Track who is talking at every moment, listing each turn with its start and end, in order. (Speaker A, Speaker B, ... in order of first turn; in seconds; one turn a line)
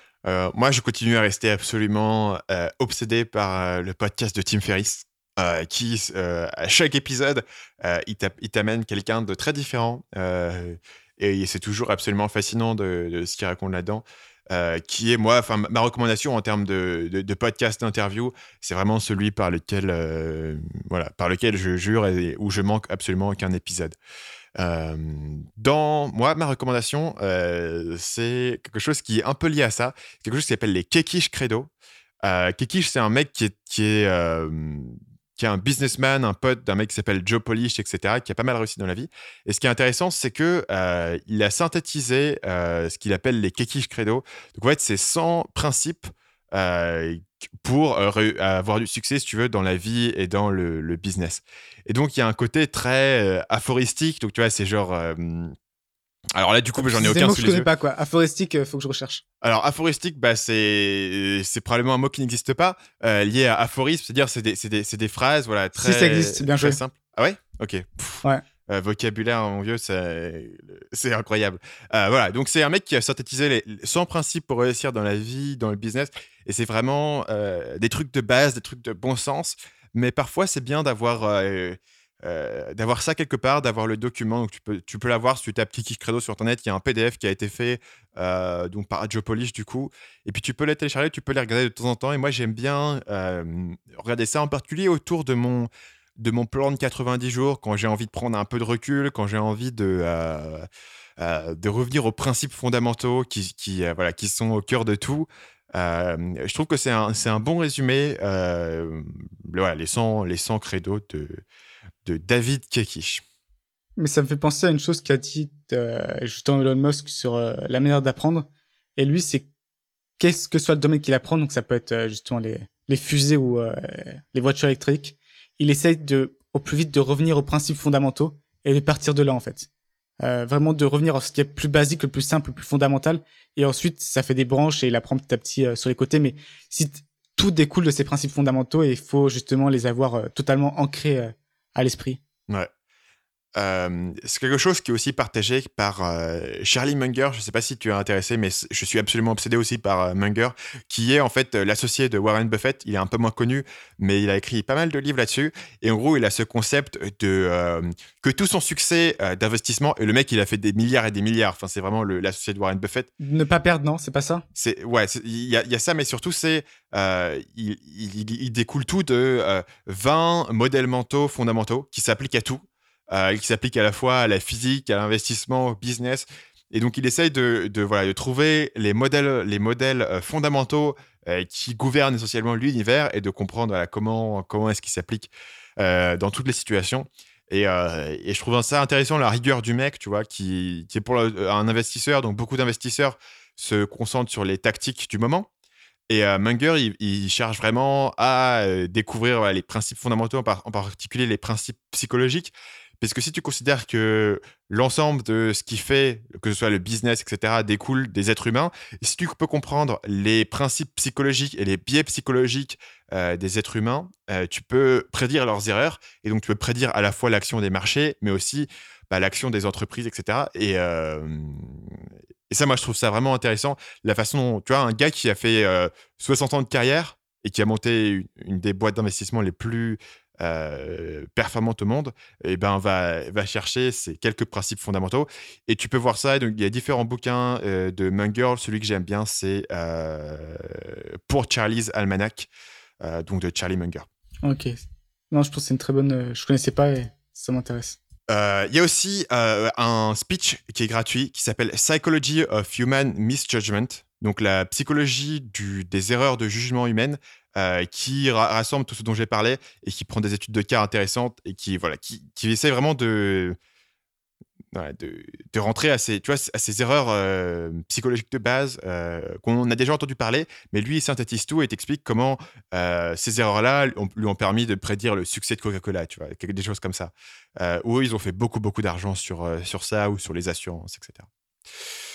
Speaker A: 0.2-23.9
Speaker A: 24.6-31.7
Speaker A: 32.2-55.5
Speaker A: 56.3-57.7
Speaker B: 56.8-59.2
Speaker A: 59.4-100.7
Speaker B: 65.7-66.8
Speaker A: 101.2-111.4
Speaker A: 112.0-113.2
Speaker B: 114.0-119.5
Speaker B: 120.2-129.7
Speaker B: 130.2-142.2
Speaker A: 143.6-163.1
Speaker B: 163.2-164.4
Speaker A: 164.5-195.5
Speaker A: 196.1-244.1
Speaker B: 244.4-244.8
Speaker B: 245.3-248.0
Speaker A: 248.3-263.6
Speaker A: 264.7-281.3